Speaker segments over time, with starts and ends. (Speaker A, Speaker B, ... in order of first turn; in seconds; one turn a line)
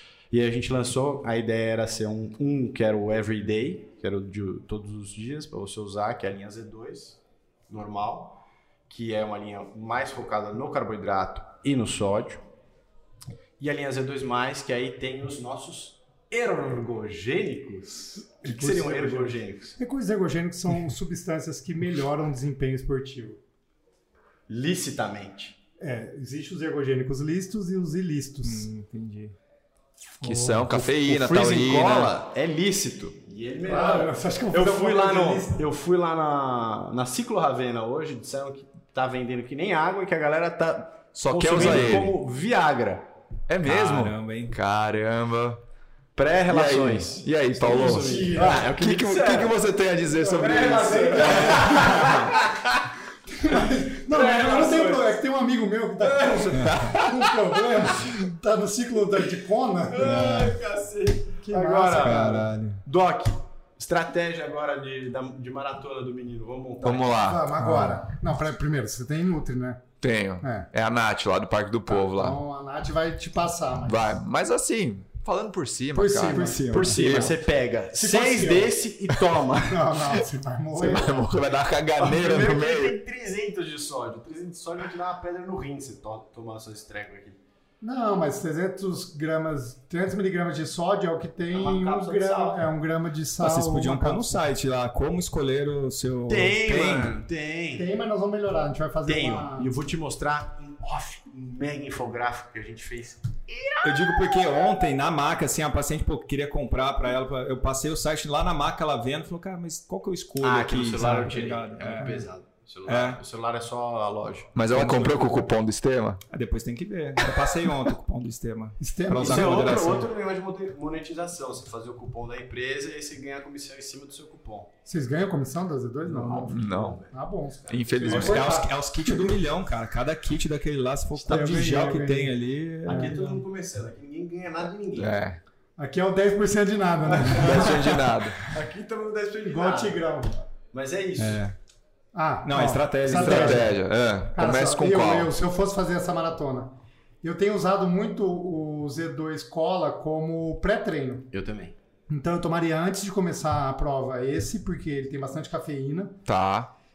Speaker A: 0.3-12.4
Speaker A: 13.6-19.8
Speaker B: 18.4-19.3
Speaker C: 19.8-23.4
Speaker A: 24.5-25.6
Speaker C: 25.8-28.7
Speaker B: 28.4-29.3
Speaker D: 30.2-32.1
Speaker C: 30.2-30.5
Speaker A: 30.6-43.1
Speaker C: 33.6-35.6
Speaker D: 41.1-42.1
Speaker B: 41.5-42.0
Speaker D: 43.5-45.6
Speaker B: 43.6-44.5
Speaker A: 46.1-49.6
Speaker D: 46.5-51.4
Speaker C: 47.5-48.7
Speaker C: 50.1-52.3
Speaker A: 50.3-52.8
Speaker B: 51.2-52.3
Speaker C: 53.3-60.5
Speaker A: 53.5-55.1
Speaker A: 56.0-57.2
Speaker B: 56.5-57.0
Speaker A: 59.9-67.2
Speaker B: 60.0-60.5
Speaker C: 61.4-62.5
Speaker B: 62.0-62.8
Speaker D: 66.8-67.5
Speaker C: 67.2-69.8
Speaker B: 67.6-68.0
Speaker D: 70.0-72.4
Speaker C: 70.4-70.7
Speaker C: 71.9-74.2
Speaker D: 73.8-77.3
Speaker C: 75.9-77.3
Speaker A: 76.3-79.9
Speaker B: 76.4-77.0
Speaker C: 77.9-78.8
Speaker C: 79.5-81.3
Speaker D: 80.7-83.0
Speaker A: 82.0-87.4
Speaker C: 87.8-94.5
Speaker A: 91.5-92.7
Speaker B: 93.4-97.2
Speaker A: 96.3-97.9
Speaker C: 97.7-99.7
Speaker A: 99.0-104.2
Speaker B: 103.8-112.3
Speaker A: 110.4-114.5
Speaker B: 112.8-113.2
Speaker D: 114.5-116.2
Speaker B: 114.7-115.4
Speaker B: 116.3-120.1
Speaker C: 118.8-119.8
Speaker A: 119.1-124.7
Speaker C: 124.8-129.3
Speaker A: 126.0-127.1
Speaker D: 126.5-127.0
Speaker D: 127.7-128.6
Speaker A: 128.0-128.5
Speaker B: 128.1-133.4
Speaker A: 131.1-131.8
Speaker C: 131.3-132.3
Speaker A: 132.8-135.2
Speaker C: 132.9-133.2
Speaker D: 134.9-135.4
Speaker C: 135.8-138.5
Speaker A: 137.1-137.8
Speaker D: 137.2-138.4
Speaker A: 138.4-140.0
Speaker C: 139.4-140.4
Speaker A: 140.6-141.4
Speaker B: 141.2-141.5
Speaker C: 142.1-143.8
Speaker B: 142.4-143.7
Speaker D: 143.1-145.3
Speaker C: 144.3-151.3
Speaker A: 151.3-151.8
Speaker C: 152.1-156.2
Speaker D: 156.2-156.7